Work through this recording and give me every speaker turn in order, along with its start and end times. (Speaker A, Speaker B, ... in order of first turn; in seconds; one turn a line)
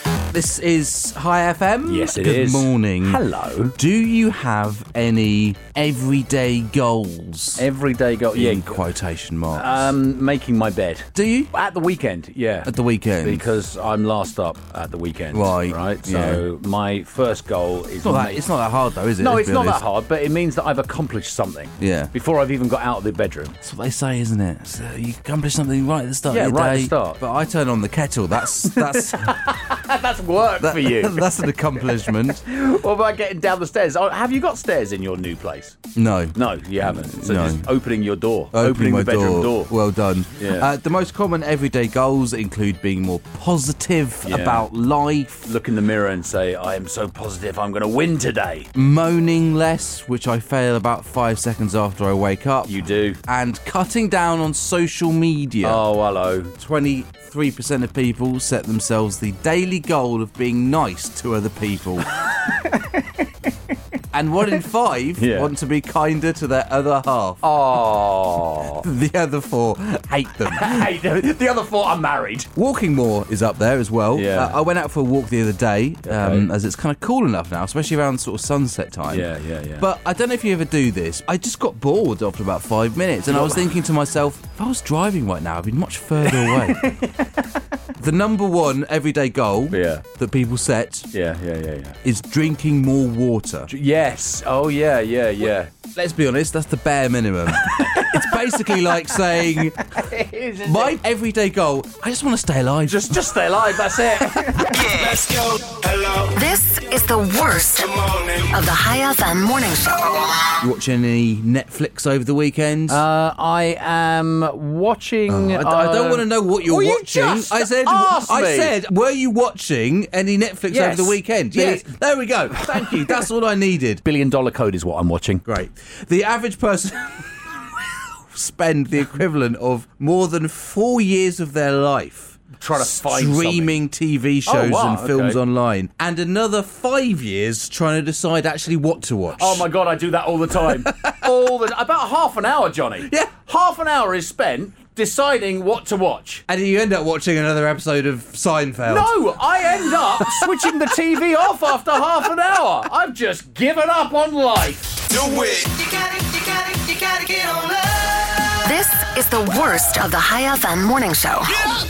Speaker A: 0.3-3.2
Speaker B: 1.9-3.7
Speaker A: 3.8-7.6
Speaker B: 7.6-8.8
Speaker A: 8.3-9.9
Speaker B: 9.5-18.4
Speaker A: 11.1-11.5
Speaker A: 12.6-13.4
Speaker A: 15.3-16.4
Speaker A: 18.0-19.8
Speaker B: 19.2-23.6
Speaker A: 21.8-22.1
Speaker A: 23.6-29.4
Speaker B: 26.3-27.2
Speaker B: 28.6-31.3
Speaker A: 30.6-32.4
Speaker B: 32.0-35.8
Speaker A: 35.9-37.7
Speaker B: 36.3-39.7
Speaker A: 38.5-45.5
Speaker B: 40.4-40.7
Speaker B: 44.2-44.6
Speaker B: 45.4-48.7
Speaker A: 48.7-55.8
Speaker B: 52.6-53.2
Speaker B: 55.6-56.5
Speaker A: 56.5-62.1
Speaker B: 62.2-62.9
Speaker A: 64.1-67.4
Speaker B: 65.2-65.5
Speaker B: 67.4-68.8
Speaker A: 68.8-70.9
Speaker B: 70.5-72.5
Speaker A: 72.5-87.0
Speaker B: 74.1-74.6
Speaker B: 76.0-76.5
Speaker B: 79.1-79.8
Speaker B: 83.3-83.7
Speaker B: 86.3-87.2
Speaker A: 88.0-91.1
Speaker B: 89.7-90.0
Speaker B: 91.1-92.0
Speaker A: 92.0-93.7
Speaker B: 93.7-95.7
Speaker A: 95.9-100.0
Speaker B: 97.6-98.8
Speaker B: 99.8-101.0
Speaker A: 100.6-103.2
Speaker B: 102.8-104.7
Speaker C: 104.6-106.4
Speaker D: 106.3-107.9
Speaker C: 107.8-108.5
Speaker D: 108.5-110.4
Speaker A: 110.6-113.0
Speaker B: 112.9-118.7
Speaker A: 115.3-124.0
Speaker B: 120.7-121.9
Speaker B: 122.5-123.2
Speaker B: 124.0-125.4
Speaker A: 125.5-139.7
Speaker B: 132.6-133.8
Speaker B: 134.4-135.4
Speaker B: 139.4-146.4
Speaker A: 140.6-141.3
Speaker A: 146.5-149.2
Speaker B: 148.8-155.0
Speaker A: 150.2-150.7
Speaker C: 155.1-158.5
Speaker D: 158.6-161.5